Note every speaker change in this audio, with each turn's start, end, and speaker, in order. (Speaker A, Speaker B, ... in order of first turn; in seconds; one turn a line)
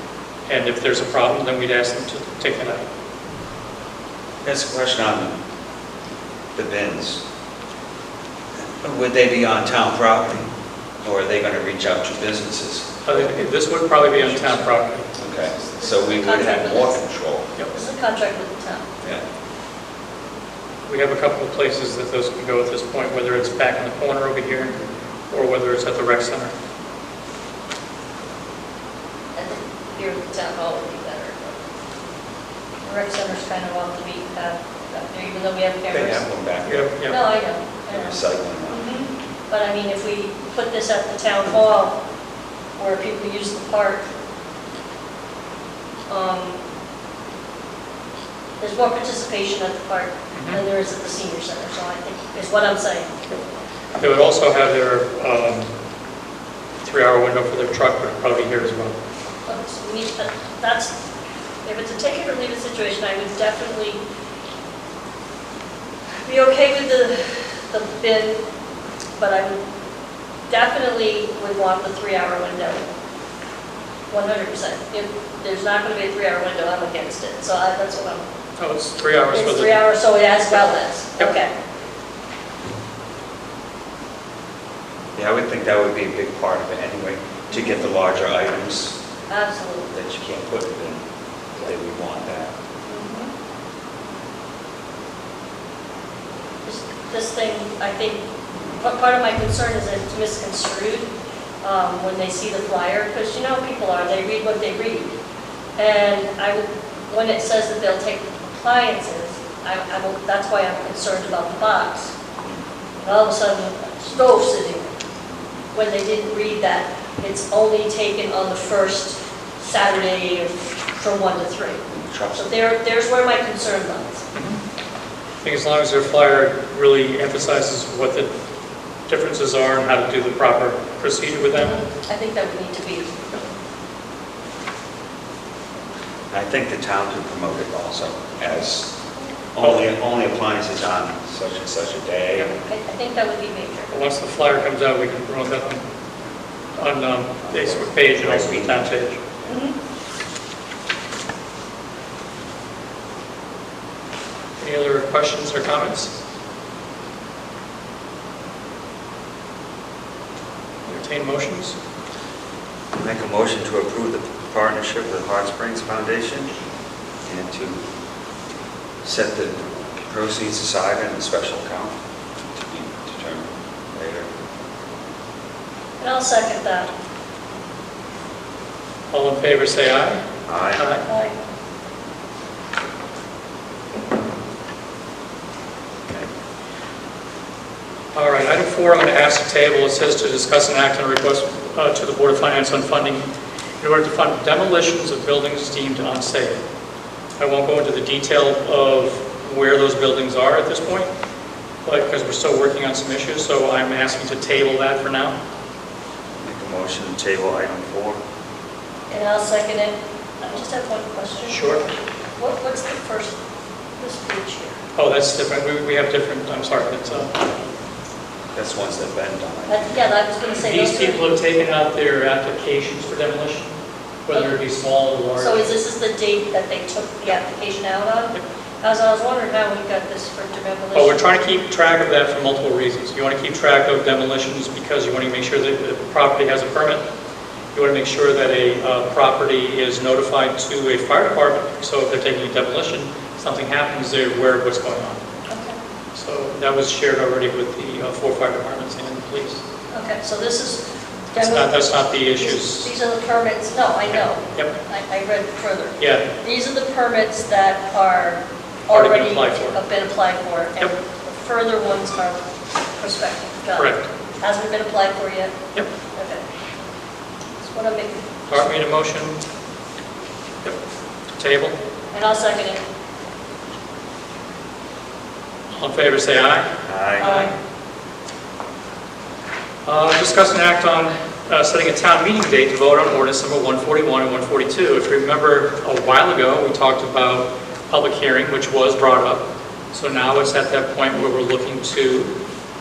Speaker A: 0.5-2.8
Speaker B: 4.4-5.3
Speaker B: 6.5-7.2
Speaker B: 8.8-10.5
Speaker B: 11.0-13.3
Speaker A: 13.0-15.1
Speaker B: 15.2-17.5
Speaker C: 15.6-17.0
Speaker C: 17.7-18.9
Speaker A: 20.9-24.8
Speaker A: 25.3-26.5
Speaker C: 29.3-31.6
Speaker C: 32.8-36.2
Speaker B: 35.9-36.9
Speaker A: 36.6-37.2
Speaker C: 37.0-42.0
Speaker B: 37.9-38.9
Speaker C: 42.8-44.1
Speaker C: 46.1-46.6
Speaker C: 48.6-53.1
Speaker A: 50.3-50.6
Speaker A: 54.0-55.7
Speaker A: 56.8-59.0
Speaker C: 59.5-60.9
Speaker C: 61.6-64.0
Speaker C: 66.2-68.4
Speaker C: 69.2-69.6
Speaker C: 70.5-72.8
Speaker C: 74.1-78.2
Speaker A: 78.6-79.8
Speaker C: 79.3-81.5
Speaker B: 85.2-89.0
Speaker C: 87.5-87.9
Speaker C: 89.3-89.9
Speaker B: 89.9-91.0
Speaker B: 91.5-92.5
Speaker C: 92.9-93.3
Speaker C: 96.6-98.2
Speaker C: 98.8-101.1
Speaker C: 101.6-105.1
Speaker C: 105.8-112.1
Speaker C: 113.0-114.9
Speaker C: 115.7-121.8
Speaker B: 121.9-122.5
Speaker C: 122.3-124.2
Speaker A: 124.3-124.6
Speaker A: 125.4-128.3
Speaker A: 129.1-131.8
Speaker C: 131.4-133.1
Speaker B: 136.3-138.9
Speaker B: 139.5-142.5
Speaker C: 142.6-143.9
Speaker A: 143.9-145.8
Speaker A: 146.8-149.2
Speaker B: 147.5-148.9
Speaker C: 149.5-149.8
Speaker A: 154.6-156.1
Speaker A: 160.8-161.8
Speaker B: 163.0-166.5
Speaker B: 167.2-167.8
Speaker B: 169.0-171.9
Speaker B: 172.5-174.3
Speaker C: 176.0-176.9
Speaker A: 179.1-180.2
Speaker B: 180.5-180.8
Speaker A: 180.8-181.0
Speaker C: 181.1-181.3
Speaker A: 188.1-193.2
Speaker A: 193.8-196.6
Speaker A: 197.4-201.1
Speaker A: 201.8-205.4
Speaker B: 206.4-208.2
Speaker C: 209.1-213.4
Speaker A: 211.5-211.8
Speaker C: 214.0-214.8
Speaker A: 214.9-217.4
Speaker B: 218.5-220.1
Speaker C: 219.7-221.2
Speaker A: 220.6-223.7
Speaker A: 224.3-225.7
Speaker C: 225.3-231.2
Speaker A: 230.9-237.0
Speaker A: 237.7-245.2
Speaker C: 245.5-245.8
Speaker A: 246.1-249.6
Speaker C: 249.9-265.5
Speaker A: 251.3-252.9
Speaker A: 254.1-254.7
Speaker A: 256.0-256.2
Speaker A: 258.9-259.8
Speaker A: 263.7-264.1
Speaker C: 266.1-266.4
Speaker C: 267.6-268.2
Speaker A: 268.5-269.4
Speaker A: 271.4-271.7
Speaker C: 272.1-272.8
Speaker A: 275.7-277.5
Speaker B: 276.9-277.3
Speaker C: 277.2-277.5
Speaker A: 279.8-292.3